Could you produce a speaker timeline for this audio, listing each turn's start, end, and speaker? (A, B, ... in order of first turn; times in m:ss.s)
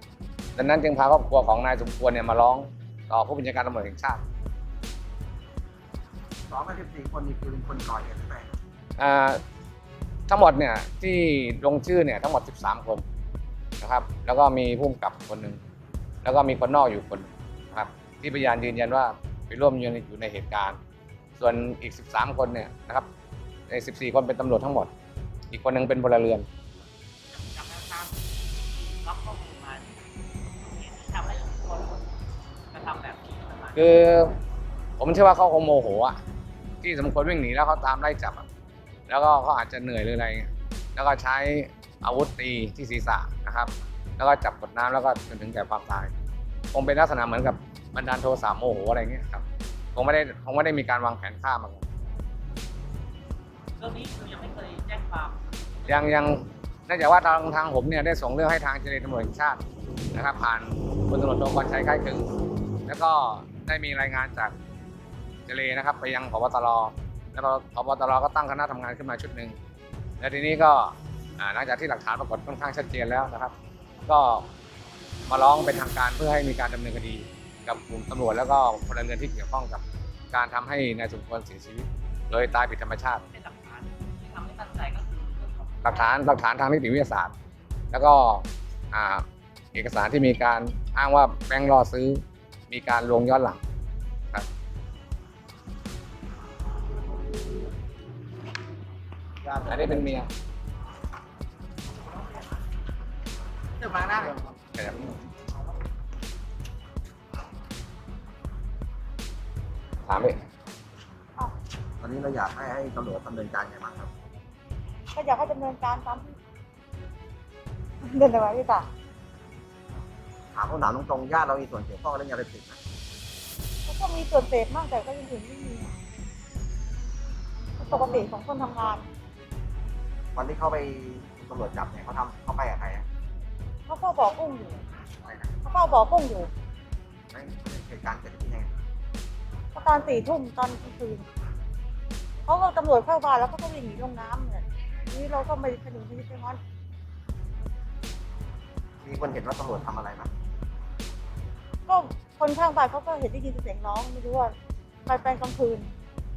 0:00.6-0:04.2 A
0:06.5-0:08.5 B
0:09.0-0:09.4 A
0:10.3-0:13.0 A
0:13.8-0:15.6 A
0:16.2-0:20.8 A
0:21.4-0:23.1 A
0:23.7-0:24.9 A
0:25.5-0:26.4 A
0:27.3-0:30.0 C
0:30.6-0:32.0 C
0:32.7-0:34.0 C
0:33.8-0:34.4 A
0:35.0-0:36.2 A
0:36.8-0:38.4 A
0:39.1-0:46.1 A
0:46.7-0:49.4 A
0:49.9-0:51.8 A
0:53.8-0:56.3 C
0:55.9-0:59.6 A
1:00.1-1:02.3 A
1:02.9-1:04.5 A
1:05.5-1:09.6 A
1:10.2-1:13.5 A
1:14.0-1:14.5 A
1:15.3-1:19.8 A
1:20.3-1:23.2 A
1:23.2-1:26.2 C
1:25.8-1:27.3 A
1:27.9-1:33.6 A
1:39.4-1:40.1 B
1:39.7-1:40.3 A
1:43.9-1:44.2 C
1:44.7-1:45.2 A
1:50.1-1:50.4 A
1:52.0-1:54.1 B
1:55.1-1:56.4 D
1:58.0-1:58.9 D
2:00.5-2:02.8 B
2:03.9-2:05.9 D
2:07.8-2:09.1 D
2:10.3-2:13.0 B
2:13.9-2:14.8 D
2:15.2-2:15.5 B
2:15.6-2:16.5 D
2:17.3-2:18.7 B
2:19.7-2:21.2 D
2:22.5-2:26.6 D
2:29.0-2:30.3 B
2:31.9-2:34.5 D
2:35.0-2:35.9 D